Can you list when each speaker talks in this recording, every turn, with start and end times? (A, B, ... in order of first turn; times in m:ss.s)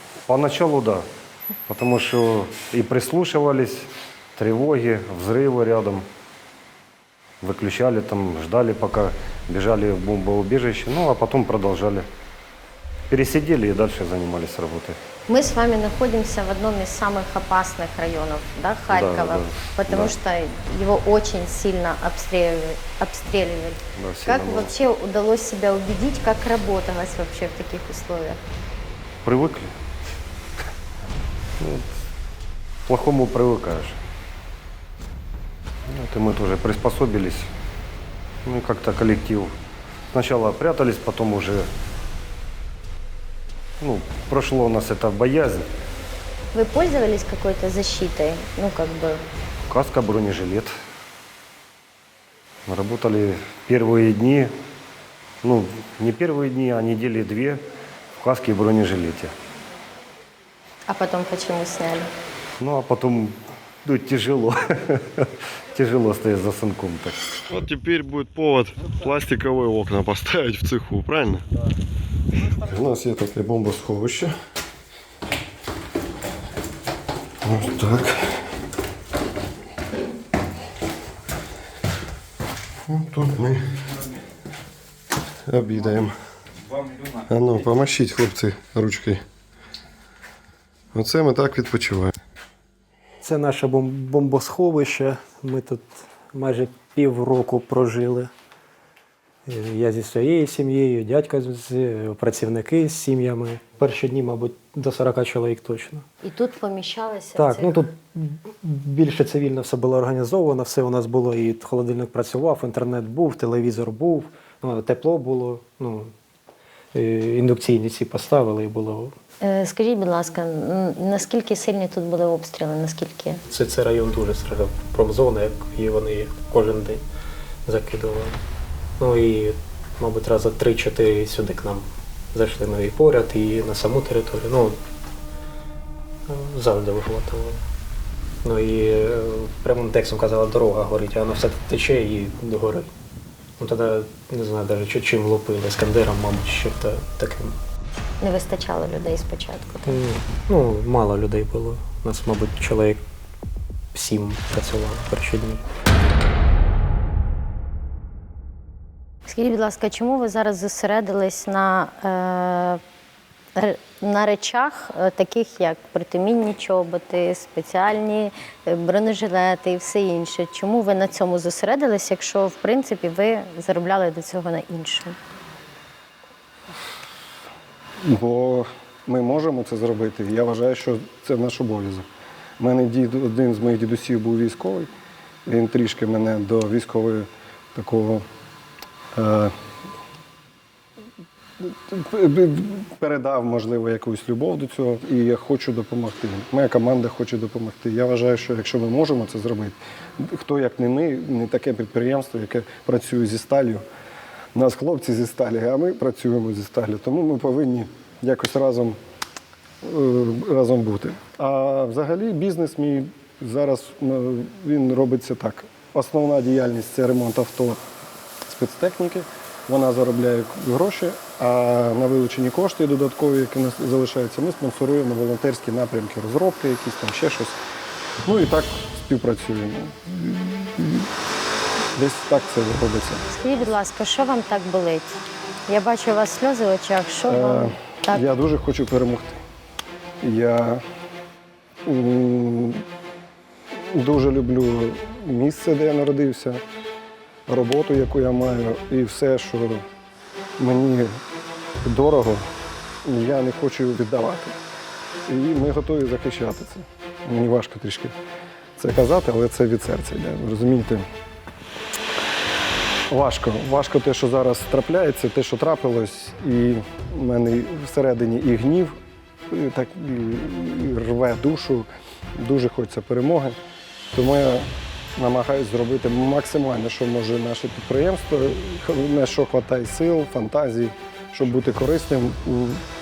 0:00.2-0:01.0 A
0:01.7-0:06.0 A
0:07.4-0:12.1 A
0:13.1-0:15.0 A
0:15.3-0:28.4 B
0:18.9-0:20.1 A
0:24.0-0:24.7 A
0:29.2-0:29.7 A
0:31.6-0:31.9 A
0:32.8-0:34.0 A
0:35.9-0:37.5 A
0:38.4-0:39.5 A
0:40.1-0:41.7 A
0:43.8-0:45.7 A
0:46.5-0:49.2 B
0:49.7-0:50.7 A
0:52.7-0:54.5 A
0:55.4-0:57.6 A
0:58.2-0:59.3 A
1:00.9-1:02.1 B
1:02.6-1:07.2 A
1:07.5-1:11.4 C
1:12.6-1:14.3 D
1:17.5-1:18.1 D
1:23.0-1:23.6 C
1:25.5-1:26.1 C
1:27.3-1:29.0 D
1:31.0-1:32.1 C
1:33.2-1:38.3 E
1:39.4-1:46.0 E
1:46.2-1:47.8 B
1:47.4-1:56.1 E
1:56.9-1:59.1 E
1:59.4-2:03.4 B
2:03.5-2:07.0 E
2:07.6-2:08.4 E
2:09.0-2:14.8 E
2:16.3-2:17.6 E
2:18.4-2:22.9 E
2:23.6-2:27.6 E
2:28.2-2:30.0 B
2:29.8-2:33.0 E
2:33.9-2:35.6 E
2:39.2-2:42.8 B
2:43.6-2:55.2 B
2:58.0-3:02.1 D
3:02.6-3:04.9 D
3:05.4-3:08.2 D
3:09.1-3:09.5 D
3:11.6-3:23.8 D
3:24.5-3:29.0 D
3:29.8-3:37.8 D
3:38.5-3:47.6 D
3:48.2-3:51.1 D
3:51.9-3:53.2 D
3:53.3-3:58.3 B
3:57.3-3:59.4 D
4:00.2-4:00.8 D
4:01.8-4:02.8 D
4:03.7-4:06.6 D
4:07.5-4:09.8 D
4:10.6-4:11.2 D
4:11.8-4:12.5 D
4:13.0-4:14.6 D
4:15.2-4:18.1 D
4:18.8-4:21.1 D
4:23.1-4:29.0 D
4:29.5-4:33.6 D
4:34.1-4:42.8 D